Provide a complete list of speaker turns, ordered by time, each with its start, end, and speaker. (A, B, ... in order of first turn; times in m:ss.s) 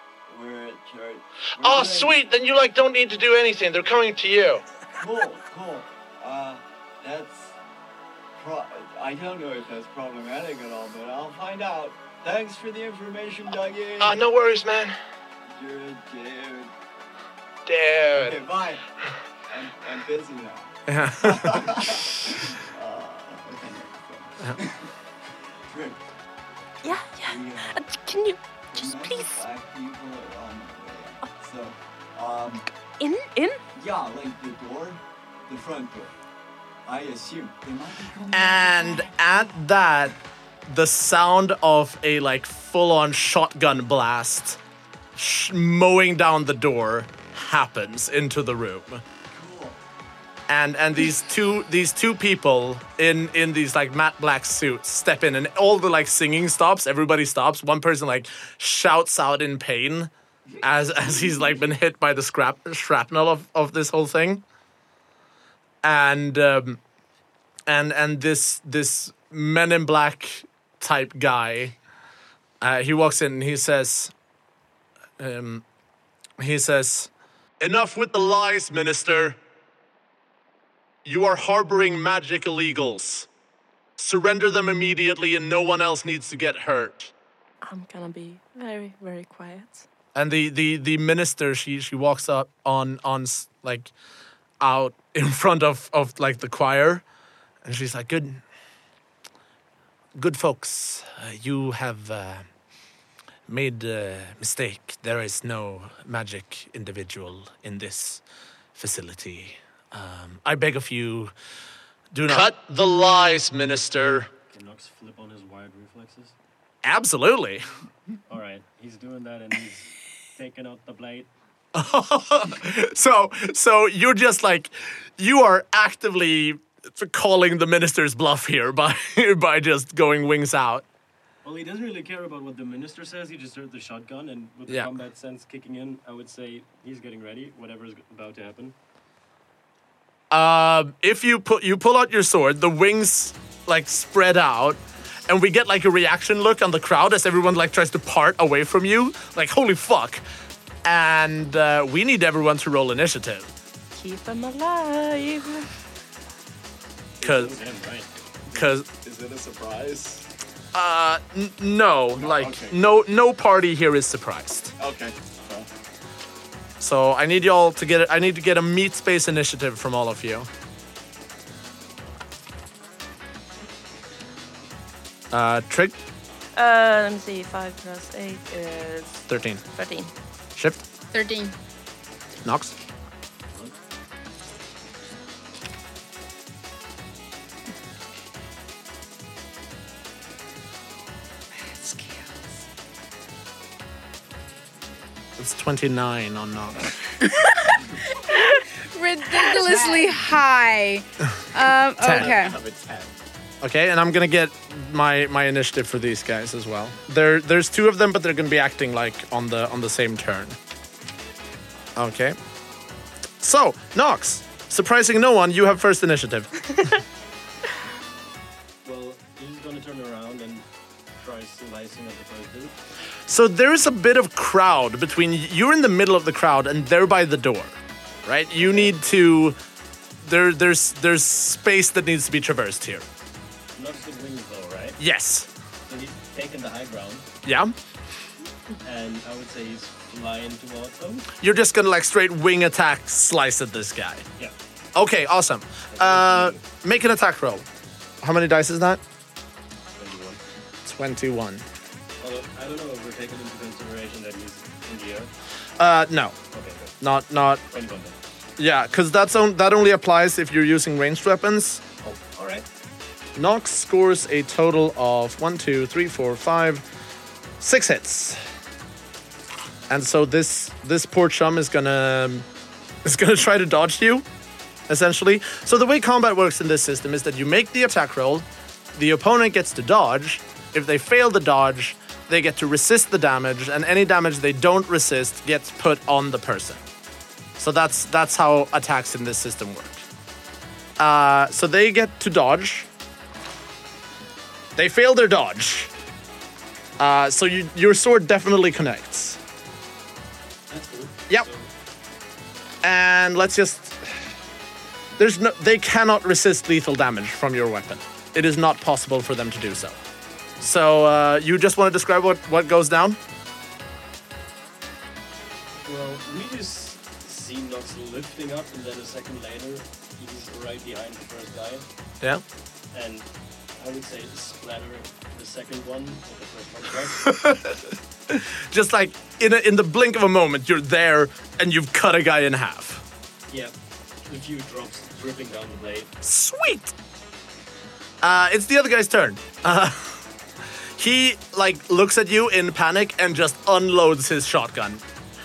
0:00.3-0:02.1 A
0:01.6-0:04.6 B
0:05.0-0:07.6 A
0:08.4-0:14.2 A
0:14.0-0:15.0 B
0:15.5-0:16.7 A
0:17.7-0:18.4 B
0:18.1-0:18.8 A
0:19.5-0:24.9 A
0:20.9-0:21.9 B
0:25.6-0:26.0 A
0:26.8-0:29.4 C
0:27.2-0:27.9 A
0:28.7-0:32.6 A
0:33.0-0:33.6 C
0:33.8-0:36.2 A
0:36.8-0:39.1 A
0:38.3-0:40.2 B
0:40.7-0:44.6 B
0:45.2-0:49.0 B
0:49.3-0:49.8 A
0:50.5-1:04.4 B
1:05.8-1:06.8 B
1:07.7-1:11.8 B
1:12.6-1:14.1 B
1:15.2-1:15.6 B
1:16.4-1:19.4 B
1:21.0-1:23.3 B
1:24.0-1:27.1 B
1:27.6-1:29.8 C
1:30.2-1:33.9 B
1:34.6-1:37.0 B
1:37.6-1:38.4 B
1:40.2-1:42.4 B
1:43.5-1:48.2 B
1:48.8-1:51.3 B
1:52.1-1:54.3 B
1:54.4-1:56.3 D
1:56.8-1:57.7 B
1:58.3-2:01.3 D
2:01.8-2:10.8 B
2:11.4-2:18.8 D
2:20.3-2:30.2 B
2:30.8-2:33.5 B
2:34.0-2:35.7 C
2:37.2-2:38.1 D
2:37.2-2:37.6 B
2:38.5-2:40.3 A
2:38.5-2:38.9 B
2:40.7-2:44.7 B
2:42.1-2:42.8 A
2:44.8-2:45.7 A
2:46.8-2:50.5 B
2:55.3-2:56.0 B
2:56.6-3:00.1 C
2:59.3-2:59.6 B
3:00.6-3:00.8 B
3:01.1-3:01.6 E
3:02.4-3:02.7 B
3:11.5-3:12.4 E
3:15.4-3:17.3 B
3:17.7-3:22.6 E
3:22.0-3:22.3 B
3:22.1-3:23.2 A
3:23.6-3:30.6 B
3:32.0-3:32.4 B
3:33.4-3:36.7 B
3:38.8-3:42.7 D
3:43.3-3:49.6 B
3:48.6-3:49.0 D
3:50.2-3:53.1 B
3:53.8-3:55.0 D
3:55.0-3:55.5 B
3:55.9-3:57.3 D
3:57.4-3:57.7 B
3:58.8-4:01.3 D
4:01.4-4:04.2 B
4:05.0-4:07.7 B
4:05.9-4:06.6 D
4:08.2-4:09.0 B
4:10.0-4:10.4 D
4:10.8-4:11.6 B
4:12.2-4:15.3 D
4:15.8-4:16.4 B
4:16.5-4:17.0 D
4:17.0-4:17.6 B
4:17.6-4:18.2 D
4:18.6-4:21.8 B
4:22.0-4:22.7 D
4:23.4-4:26.8 B
4:27.6-4:28.4 B
4:29.9-4:32.5 B
4:33.0-4:34.3 B
4:34.9-4:38.4 B
4:39.0-4:46.8 B
4:47.6-4:50.0 B
4:51.0-4:52.9 B
4:54.8-4:55.9 B
4:57.0-4:59.4 B
5:00.7-5:01.7 D
5:02.8-5:04.2 B
5:05.2-5:10.0 B
5:10.6-5:13.2 B
5:15.8-5:21.8 D
5:22.9-5:27.3 D
5:27.2-5:33.0 B
5:33.5-5:33.7 D
5:34.2-5:36.1 D
5:36.2-5:36.9 B
5:38.2-5:40.2 B
5:41.0-5:45.0 B